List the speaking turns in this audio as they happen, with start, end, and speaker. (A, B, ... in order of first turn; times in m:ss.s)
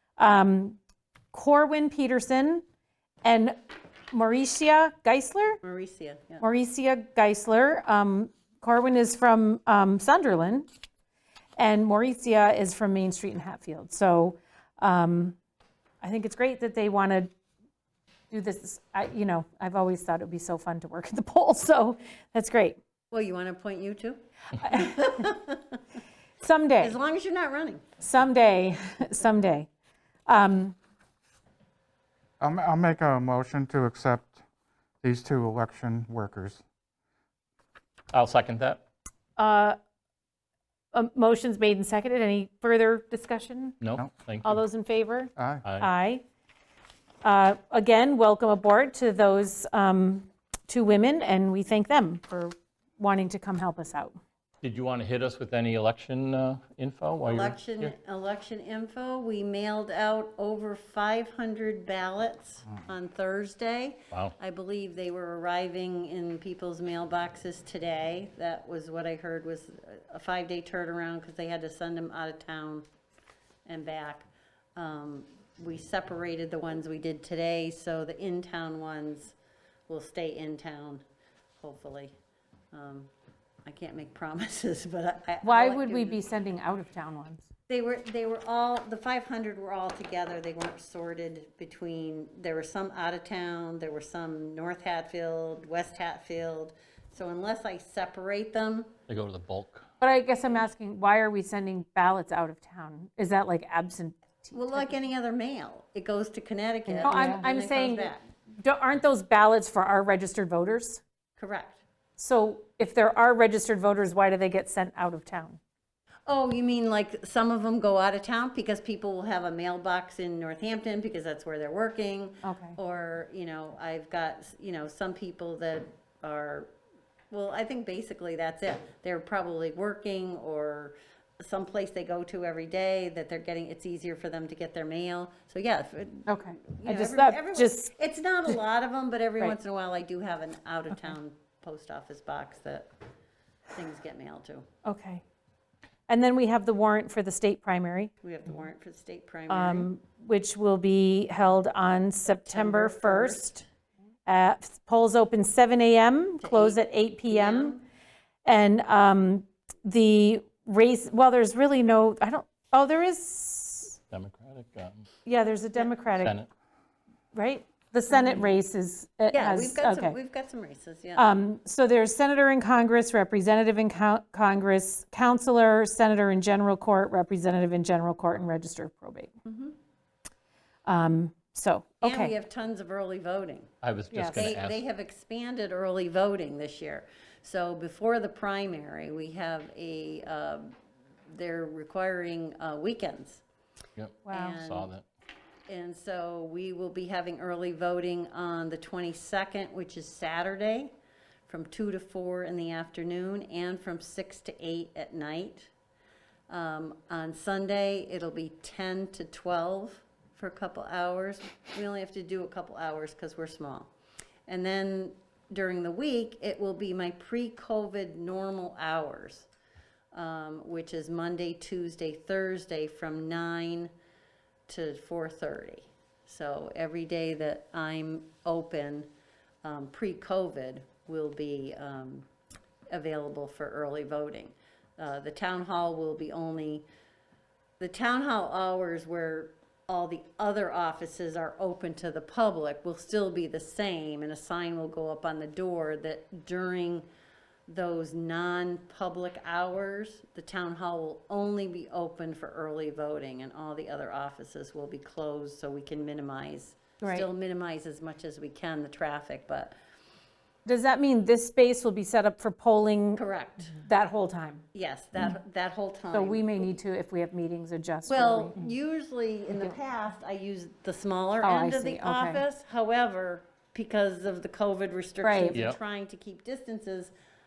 0:00.2-0:00.8 A
0:01.3-0:02.6 A
0:03.2-0:03.6 A
0:04.1-0:05.6 A
0:05.6-0:06.4 B
0:06.4-0:10.7 A
0:11.6-0:15.4 A
0:16.0-0:17.3 A
0:18.3-0:22.8 A
0:23.1-0:25.8 B
0:24.6-0:25.2 A
0:26.4-0:27.0 A
0:26.8-0:27.8 B
0:28.0-0:29.7 A
0:30.3-0:30.8 A
0:32.4-0:34.4 C
0:35.0-0:36.6 C
0:38.1-0:38.8 D
0:39.4-0:39.8 A
0:40.9-0:43.8 A
0:43.8-0:44.6 D
0:44.4-0:46.2 A
0:45.4-0:45.6 C
0:45.6-0:45.9 D
0:47.2-0:54.2 A
0:54.6-0:57.9 D
0:57.2-1:12.9 B
1:13.7-1:19.4 B
1:19.9-1:21.0 B
1:21.6-1:22.2 B
1:22.7-1:23.1 B
1:23.6-1:26.2 B
1:25.4-1:27.5 A
1:27.7-1:38.9 B
1:39.1-1:39.8 D
1:40.0-1:44.9 A
1:44.5-1:48.2 B
1:46.9-1:51.0 A
1:51.4-1:51.8 B
1:52.2-1:55.6 A
1:56.3-2:06.7 B
2:02.4-2:02.8 A
2:07.3-2:22.9 B
2:16.3-2:17.9 A
2:23.7-2:24.7 B
2:24.8-2:25.2 A
2:26.1-2:28.1 A
2:28.2-2:29.9 B
2:29.5-2:33.6 A
2:32.2-2:33.6 B
2:34.3-2:37.8 A
2:36.4-2:37.8 B
2:38.4-2:44.0 A
2:44.1-2:45.1 D
2:45.2-2:46.4 A
2:46.2-2:46.5 D
2:47.3-2:50.2 A
2:48.1-2:48.5 B
2:49.3-2:51.3 B
2:51.2-2:59.3 A
2:59.5-2:59.8 B
3:00.9-3:02.3 A
3:02.0-3:03.7 B
3:03.8-3:04.8 D
3:04.1-3:04.5 A
3:04.3-3:10.7 B
3:11.3-3:13.4 B
3:14.0-3:15.0 D
3:14.3-3:14.9 B
3:14.3-3:14.6 A
3:15.7-3:20.9 B
3:21.5-3:25.7 B
3:26.5-3:33.9 B
3:34.5-3:39.5 B
3:40.1-3:43.9 B
3:44.7-3:49.1 B
3:49.6-3:52.3 B
3:52.9-3:56.9 B
3:57.8-4:07.1 B
4:07.7-4:19.7 B
4:17.0-4:17.3 A
4:20.7-4:23.2 A
4:23.2-4:23.8 B
4:23.7-4:24.6 A
4:24.7-4:26.6 B
4:26.1-4:28.7 A
4:28.1-4:37.1 B
4:31.4-4:32.4 A
4:35.2-4:35.6 A
4:35.5-4:35.8 D